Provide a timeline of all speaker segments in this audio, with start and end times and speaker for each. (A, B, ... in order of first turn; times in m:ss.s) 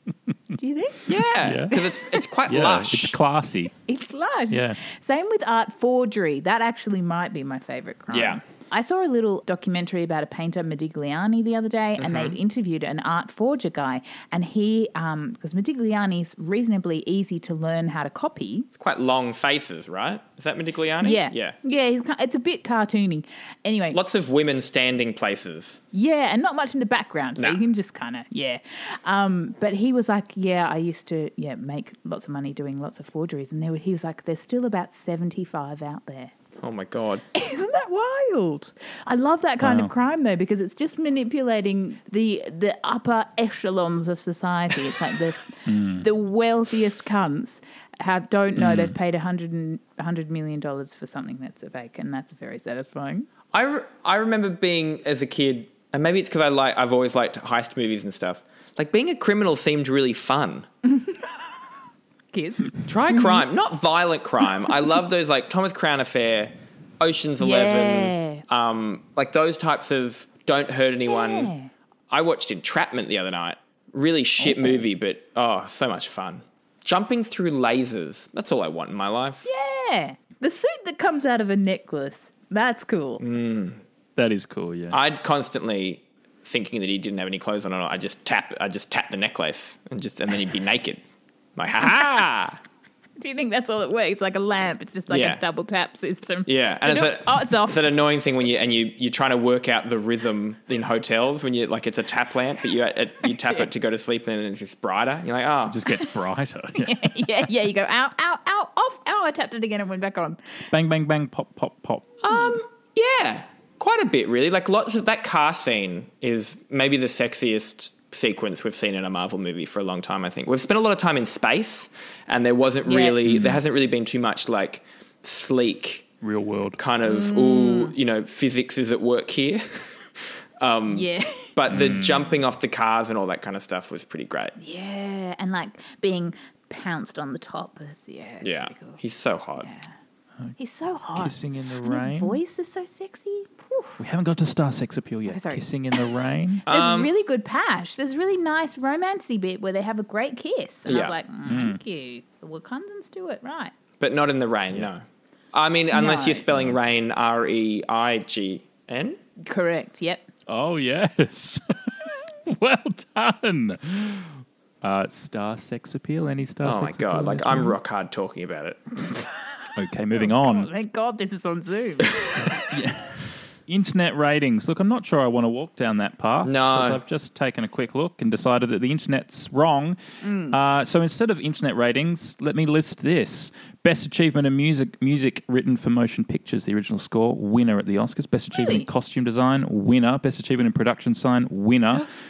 0:00.6-0:01.1 A
0:01.1-0:03.2 B
0:01.4-0:01.8 C
0:02.4-0:03.7 C
0:03.9-0:18.7 A
0:04.5-0:04.8 C
0:08.1-0:08.4 B
0:12.0-0:12.3 C
0:18.8-0:21.6 B
0:21.0-0:24.0 A
0:23.9-0:25.8 B
0:25.9-0:36.3 A
0:36.6-0:37.2 B
0:37.3-0:53.3 A
0:39.6-0:39.9 C
0:45.6-0:46.1 C
0:48.6-0:49.0 C
0:53.5-1:00.7 B
1:00.9-1:01.2 A
1:02.3-1:03.4 A
1:02.8-1:11.5 B
1:07.4-1:08.4 A
1:11.1-1:11.7 A
1:12.1-1:19.5 B
1:19.4-1:23.2 A
1:23.2-1:23.8 B
1:24.2-1:25.0 C
1:24.9-1:31.0 B
1:31.6-1:32.6 B
1:33.2-1:37.8 A
1:35.1-1:35.4 B
1:36.5-1:45.8 B
1:45.7-1:47.1 C
1:46.7-1:50.4 A
1:50.7-1:52.1 C
1:52.2-2:06.1 B
2:02.8-2:03.2 A
2:03.2-2:03.6 C
2:06.2-2:06.8 C
2:06.8-2:14.5 B
2:07.0-2:07.9 A
2:10.9-2:11.5 A
2:11.7-2:12.4 C
2:14.6-2:19.0 A
2:18.4-2:19.7 B
2:19.6-2:19.9 A
2:20.6-2:24.0 A
2:21.1-2:22.4 C
2:24.0-2:26.6 C
2:25.3-2:25.7 A
2:26.7-2:27.1 B
2:26.7-2:33.7 A
2:30.9-2:31.2 B
2:31.4-2:31.8 C
2:34.0-2:39.2 B
2:35.9-2:36.5 A
2:39.4-2:40.2 A
2:40.5-2:41.6 C
2:42.4-2:47.8 C
2:46.6-2:49.2 B
2:49.8-2:50.7 C
2:50.2-2:52.6 A
2:52.4-3:00.0 C
2:56.4-2:57.0 B
3:00.2-3:00.6 A
3:00.5-3:12.0 C
3:08.5-3:08.9 A